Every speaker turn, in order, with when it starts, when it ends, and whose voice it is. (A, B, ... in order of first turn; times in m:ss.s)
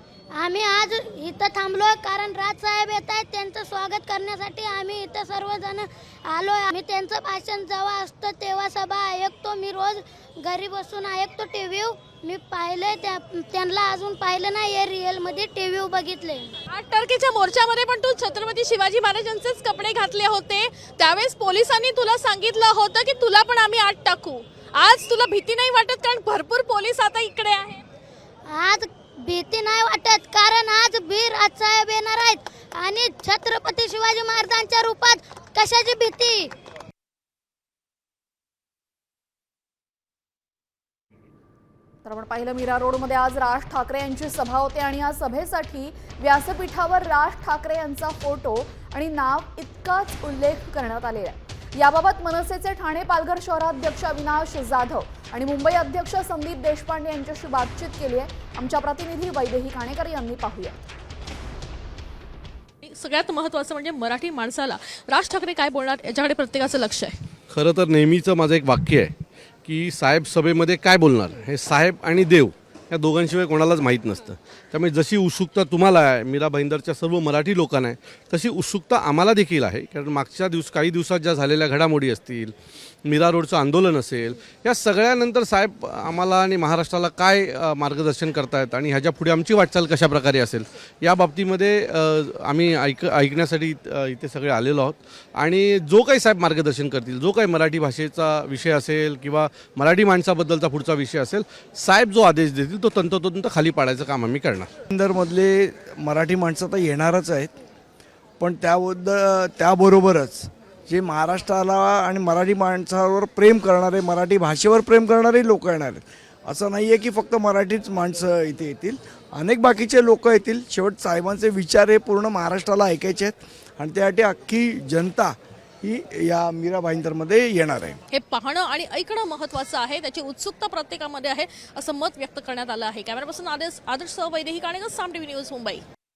0:00.4-0:16.3 A
0:16.7-0:27.8 B
0:28.5-0:28.8 A
0:29.3-0:36.4 A
0:42.0-1:00.8 C
1:02.9-1:07.2 B
1:07.5-1:09.2 D
1:09.7-1:22.5 D
1:23.1-1:44.7 D
1:44.9-1:47.5 E
1:48.4-2:08.0 E
2:08.1-2:15.8 B